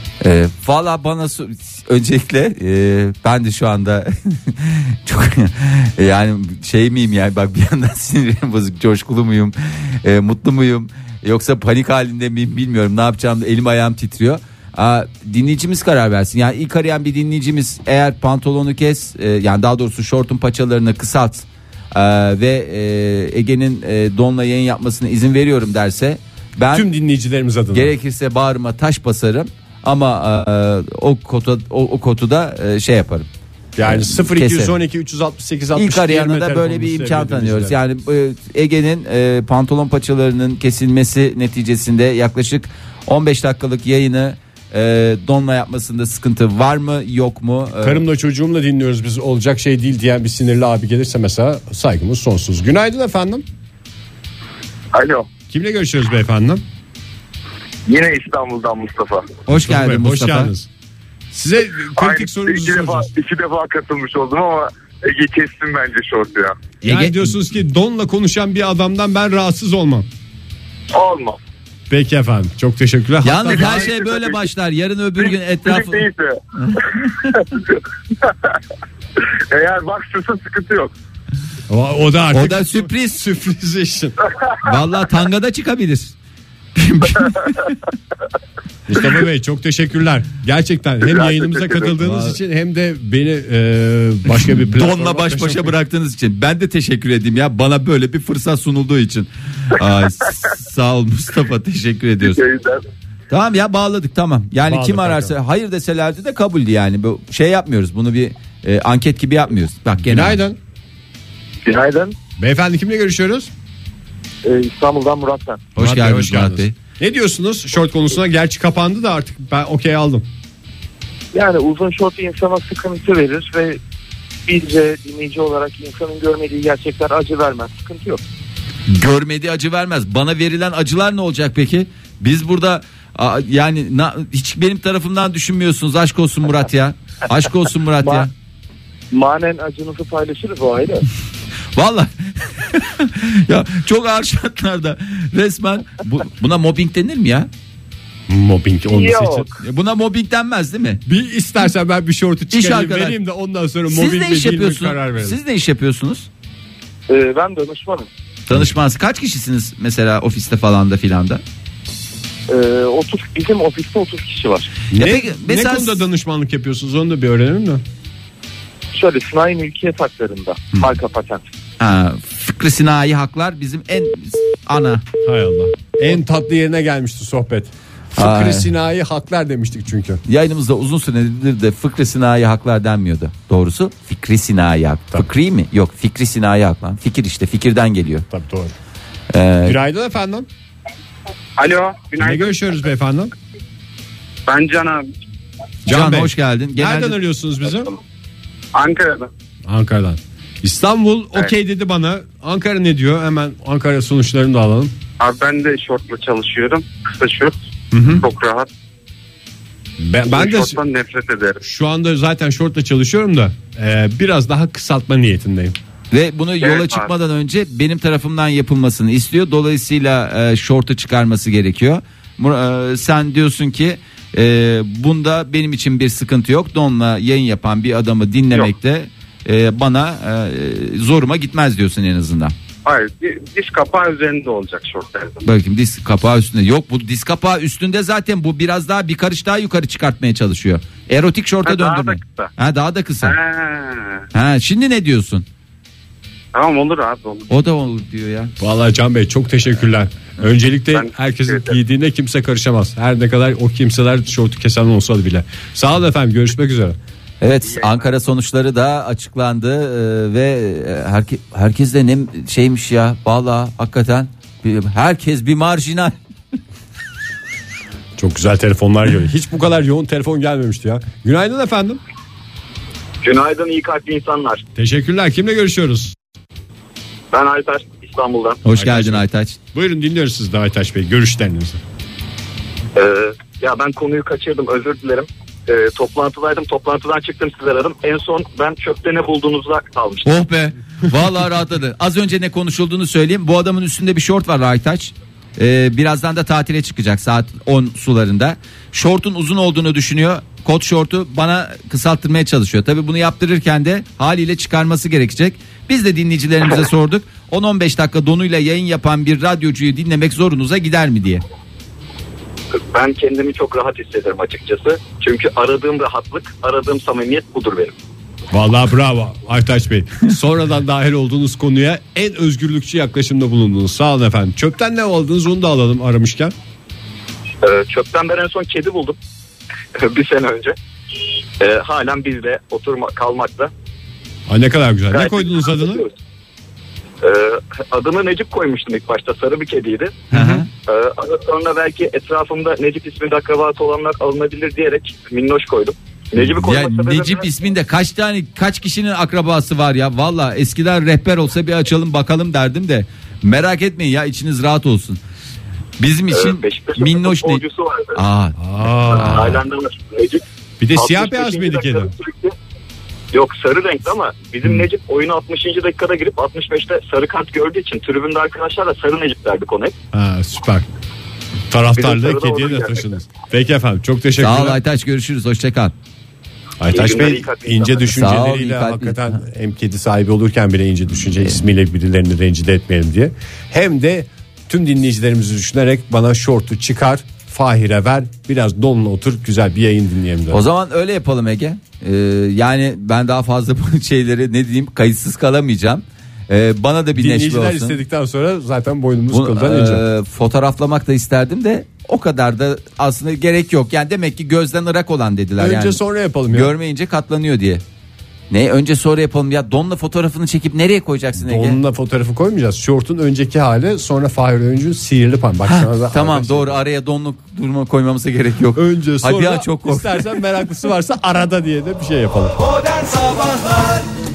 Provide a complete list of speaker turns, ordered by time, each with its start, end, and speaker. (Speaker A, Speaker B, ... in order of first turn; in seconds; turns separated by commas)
Speaker A: 0.2-26.9, Speaker B: 26.7-27.9, Speaker A: 27.7-33.3, Speaker B: 33.8-37.8, Speaker A: 33.8-34.8, Speaker A: 35.7-48.0, Speaker B: 47.8-53.4, Speaker B: 55.5-56.6, Speaker A: 59.5-60.5, Speaker B: 59.5-60.7, Speaker B: 61.3-63.1, Speaker C: 65.2-65.6, Speaker A: 66.8-67.3, Speaker B: 66.8-70.1, Speaker B: 71.9-74.0, Speaker A: 73.2-77.5, Speaker B: 81.7-84.2, Speaker A: 82.3-83.2, Speaker A: 84.6-86.2, Speaker A: 86.8-87.8, Speaker B: 88.9-95.7, Speaker A: 92.0-92.4, Speaker A: 94.3-102.4, Speaker A: 103.3-110.4, Speaker B: 104.6-105.3, Speaker B: 110.0-110.6, Speaker C: 111.6-112.1, Speaker B: 112.4-113.5, Speaker C: 114.4-115.6, Speaker A: 115.7-116.8, Speaker B: 115.8-120.3, Speaker C: 121.3-123.8, Speaker C: 124.5-128.2, Speaker A: 128.9-138.3, Speaker C: 138.0-138.3, Speaker C: 139.1-141.1, Speaker A: 141.7-147.5, Speaker B: 148.3-149.5, Speaker C: 148.9-149.6, Speaker A: 149.6-151.0, Speaker B: 151.1-155.4, Speaker A: 152.5-153.2, Speaker A: 153.9-156.3, Speaker C: 157.1-158.1, Speaker A: 158.5-161.4, Speaker C: 162.5-164.8, Speaker B: 164.9-167.8, Speaker A: 164.9-166.0, Speaker C: 168.9-171.5, Speaker A: 171.8-175.0, Speaker B: 175.2-180.2, Speaker A: 178.2-178.7, Speaker A: 180.2-188.2, Speaker B: 188.3-188.7, Speaker A: 189.3-189.8, Speaker B: 189.6-190.5, Speaker D: 191.6-192.5, Speaker B: 192.2-193.3, Speaker D: 194.5-195.1, Speaker B: 195.9-197.9, Speaker A: 195.9-197.2, Speaker D: 198.7-199.3, Speaker B: 199.7-204.9, Speaker D: 205.2-208.7, Speaker B: 207.9-208.2, Speaker B: 210.0-210.8, Speaker D: 210.3-211.6, Speaker B: 211.6-215.8, Speaker A: 216.1-232.5, Speaker D: 216.6-217.1, Speaker D: 232.8-235.4, Speaker A: 235.4-243.3, Speaker D: 241.6-242.5, Speaker D: 243.2-244.2, Speaker A: 244.3-245.4, Speaker D: 246.5-247.5, Speaker A: 247.5-248.5, Speaker B: 248.6-257.0, Speaker D: 250.9-251.8, Speaker A: 257.4-266.1, Speaker B: 268.2-272.0, Speaker E: 273.2-274.6, Speaker B: 274.8-276.1, Speaker E: 277.3-278.6, Speaker A: 278.6-279.6, Speaker B: 278.7-281.8, Speaker E: 282.9-290.3, Speaker A: 290.2-311.4, Speaker E: 312.7-317.9, Speaker B: 318.5-326.5, Speaker E: 327.6-329.2, Speaker E: 329.9-330.8, Speaker E: 331.6-333.7, Speaker B: 334.5-336.1, Speaker E: 335.1-336.1, Speaker E: 337.2-340.2, Speaker A: 340.3-340.7, Speaker B: 340.3-340.6, Speaker E: 340.9-347.4, Speaker A: 346.4-355.2, Speaker A: 356.0-357.6, Speaker E: 356.3-358.2, Speaker A: 358.1-359.6, Speaker B: 358.6-359.6, Speaker E: 359.1-360.4, Speaker B: 360.8-362.1, Speaker E: 360.9-362.5, Speaker E: 363.3-369.9, Speaker B: 370.1-370.9, Speaker B: 371.7-374.8, Speaker E: 372.0-373.0, Speaker A: 374.4-375.9, Speaker B: 376.8-390.6, Speaker E: 376.9-378.1, Speaker A: 378.1-379.4, Speaker A: 390.5-398.0, Speaker B: 397.1-400.0, Speaker A: 399.3-406.0, Speaker B: 405.6-406.7, Speaker A: 406.5-407.8, Speaker A: 408.5-411.8, Speaker B: 411.4-416.8, Speaker A: 415.7-420.4, Speaker B: 418.7-422.6, Speaker A: 423.0-424.0